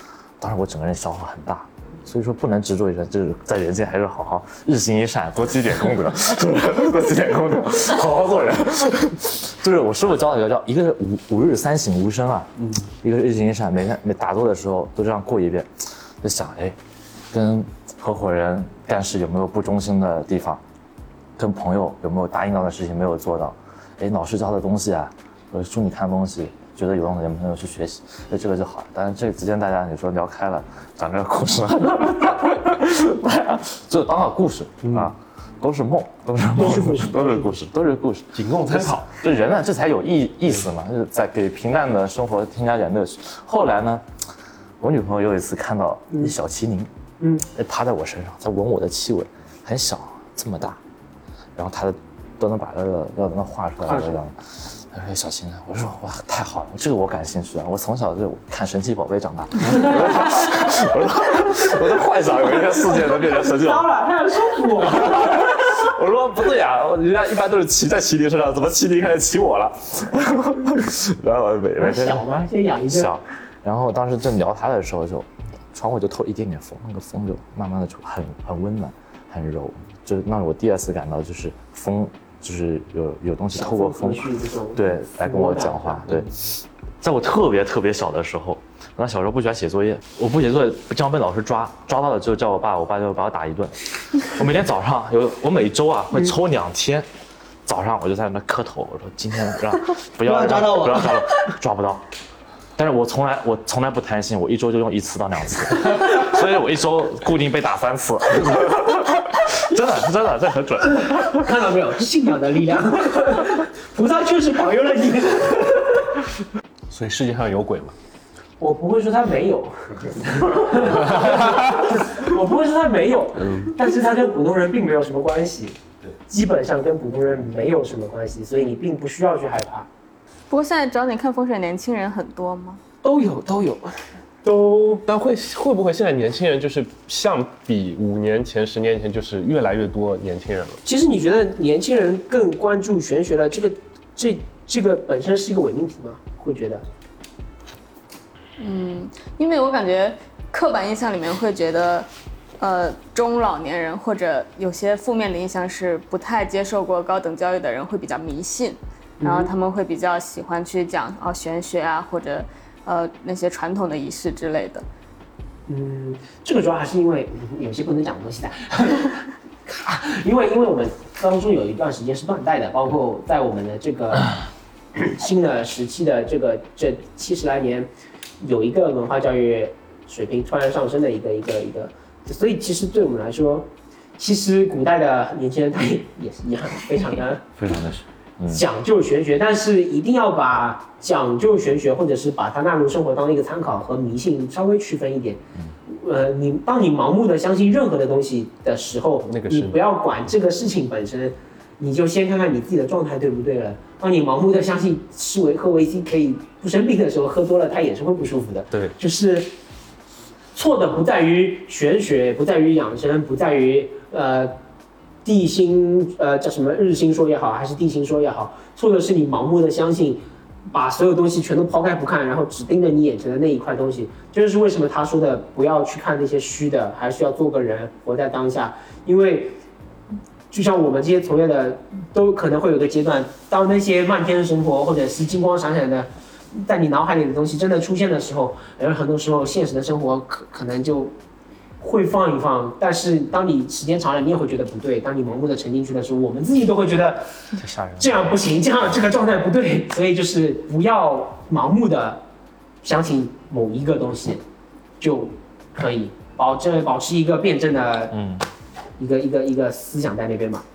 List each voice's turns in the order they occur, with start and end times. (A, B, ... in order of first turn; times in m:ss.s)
0:00.4-0:16.8 A
0:17.3-0:20.6 A
0:21.4-0:44.0 A
0:34.8-0:35.1 B
0:36.6-0:37.5 C
0:38.3-0:39.1 B
0:44.8-0:46.9 A
0:47.4-0:50.8 A
0:51.6-1:03.9 A
1:03.4-1:05.6 C
1:04.8-1:26.5 A
1:11.8-1:13.1 C
1:23.5-1:26.3 C
1:27.0-1:37.1 A
1:37.6-1:42.0 A
1:40.3-1:41.2 C
1:42.8-1:51.5 A
1:51.1-1:56.1 C
1:56.9-1:57.9 B
1:58.6-2:09.9 C
2:01.0-2:01.6 B
2:03.4-2:03.7 B
2:10.5-2:12.8 D
2:13.0-2:15.0 C
2:15.0-2:20.8 B
2:20.8-2:26.8 C
2:28.6-2:32.1 D
2:32.6-2:44.8 D
2:39.2-2:39.5 C
2:45.7-2:54.4 C
2:54.9-2:57.9 C
2:58.4-3:07.4 C
3:07.6-3:08.6 A
3:08.5-3:29.5 C
3:19.3-3:19.8 B
3:30.5-3:34.6 C
3:35.2-3:49.6 C
3:50.5-4:01.1 C
4:01.8-4:07.2 C
4:07.6-4:08.1 A
4:08.0-4:12.2 C
4:12.8-4:14.4 C
4:15.0-4:18.2 C
4:18.1-4:18.4 A
4:19.0-4:20.6 C